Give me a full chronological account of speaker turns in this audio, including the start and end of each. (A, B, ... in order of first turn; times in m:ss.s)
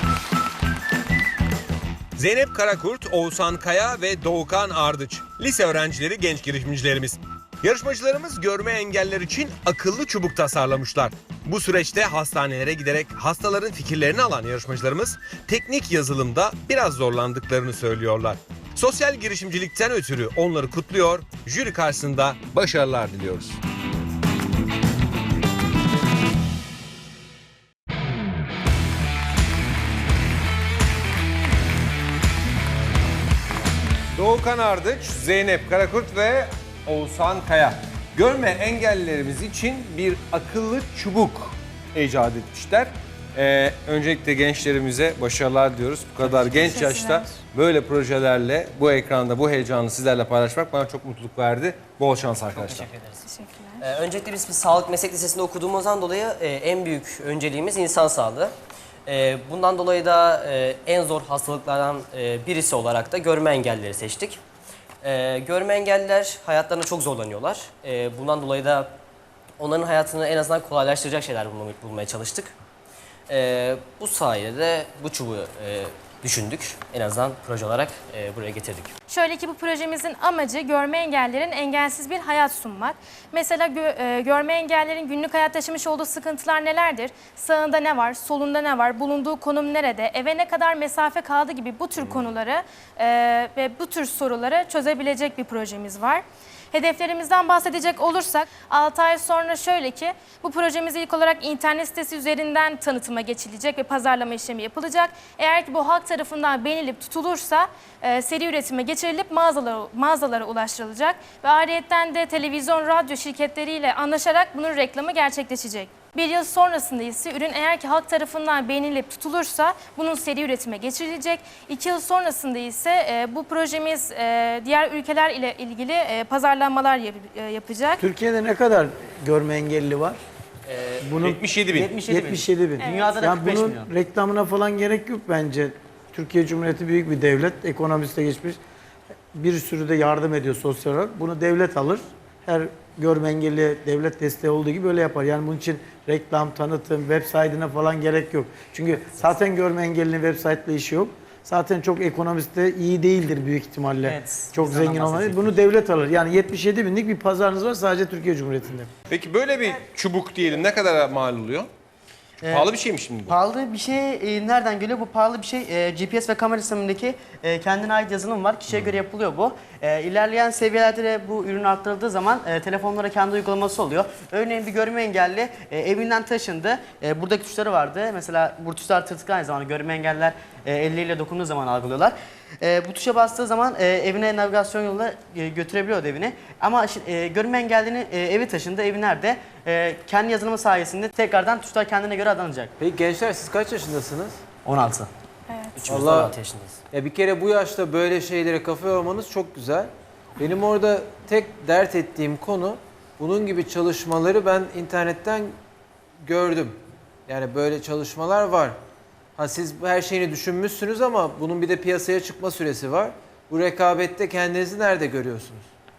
0:02.2-0:23.6 A
0:34.1-0:52.9 A
0:46.7-0:47.3 B
0:52.5-0:53.2 C
0:53.3-0:53.8 B
0:53.8-0:58.5 C
0:59.1-1:04.4 C
1:05.0-1:08.9 C
1:09.6-1:12.5 C
1:13.3-1:18.9 C
1:19.1-2:08.0 B
2:08.0-2:10.2 D
2:10.7-2:11.0 C
2:11.0-2:18.6 D
2:11.2-2:11.9 A
2:11.7-2:13.9 E
2:12.8-2:13.2 B
2:19.3-2:38.9 D
2:34.0-2:35.6 E
2:39.1-2:41.7 A
2:42.4-2:42.7 E
2:42.5-2:43.4 A
2:43.3-3:12.7 E
3:12.8-3:14.4 F
3:14.6-3:15.1 E
3:15.5-3:15.8 B
3:15.8-3:16.8 C
3:15.8-3:16.4 F
3:16.9-3:25.5 F
3:26.2-3:26.8 F
3:27.3-3:28.8 F
3:29.4-3:35.6 F